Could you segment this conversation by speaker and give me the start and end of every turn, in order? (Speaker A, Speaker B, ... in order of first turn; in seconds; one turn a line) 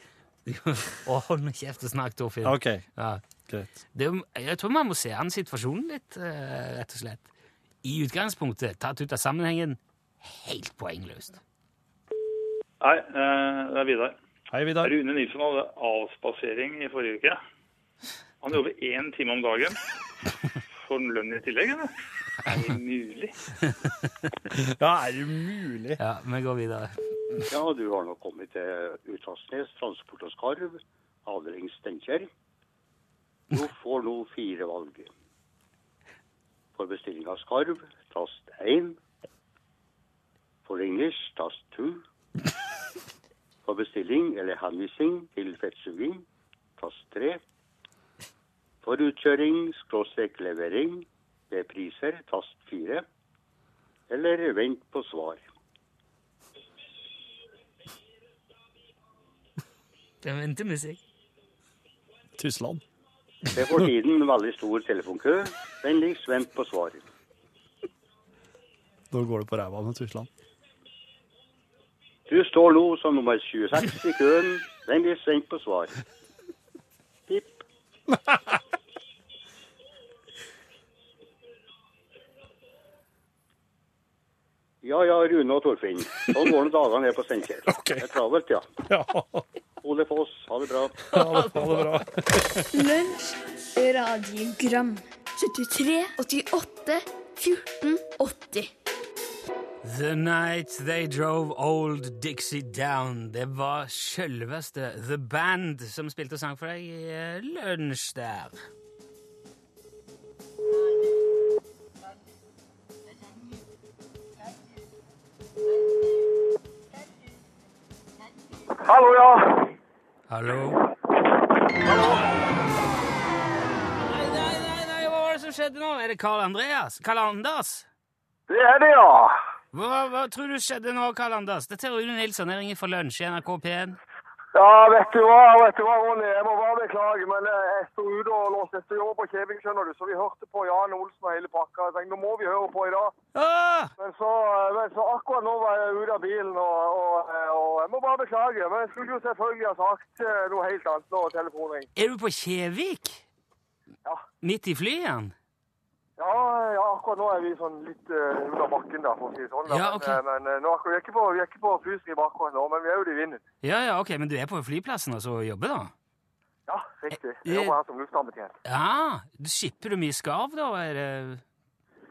Speaker A: 0.5-3.2
Speaker B: 2.4-2.8
Speaker B: 3.5-3.7
Speaker A: 3.9-7.3
Speaker A: 7.8-11.4
Speaker C: 12.8-14.2
Speaker B: 14.5-14.9
Speaker C: 14.8-17.4
Speaker C: 18.4-19.8
Speaker C: 20.8-21.9
Speaker C: 22.4-23.4
Speaker B: 24.6-26.0
Speaker A: 26.0-27.4
Speaker D: 27.5-32.3
Speaker D: 33.5-35.1
Speaker D: 36.8-39.0
Speaker D: 40.6-42.0
Speaker D: 43.6-46.2
Speaker D: 46.8-47.4
Speaker D: 48.8-53.0
Speaker D: 54.1-55.4
Speaker A: 60.2-61.0
Speaker B: 62.4-62.8
Speaker D: 63.5-67.0
Speaker B: 69.1-70.3
Speaker D: 72.3-76.0
Speaker D: 77.3-77.6
Speaker D: 84.8-88.7
Speaker B: 87.7-88.1
Speaker B: 88.8-89.5
Speaker D: 89.8-91.0
Speaker B: 91.1-92.7
Speaker A: 91.3-91.6
Speaker E: 92.7-98.7
Speaker A: 99.8-108.6
Speaker F: 118.8-119.7
Speaker A: 120.3-120.8
Speaker F: 121.8-122.3
Speaker A: 124.0-127.9
Speaker F: 128.5-129.3
Speaker A: 129.7-134.0
Speaker F: 134.5-143.1
Speaker A: 143.3-143.9
Speaker F: 144.0-151.9
Speaker A: 151.9-153.2
Speaker A: 154.4-155.3
Speaker F: 156.2-163.4
Speaker A: 159.7-160.2
Speaker A: 163.6-165.9
Speaker F: 166.7-168.5
Speaker A: 167.4-167.8
Speaker A: 168.6-171.4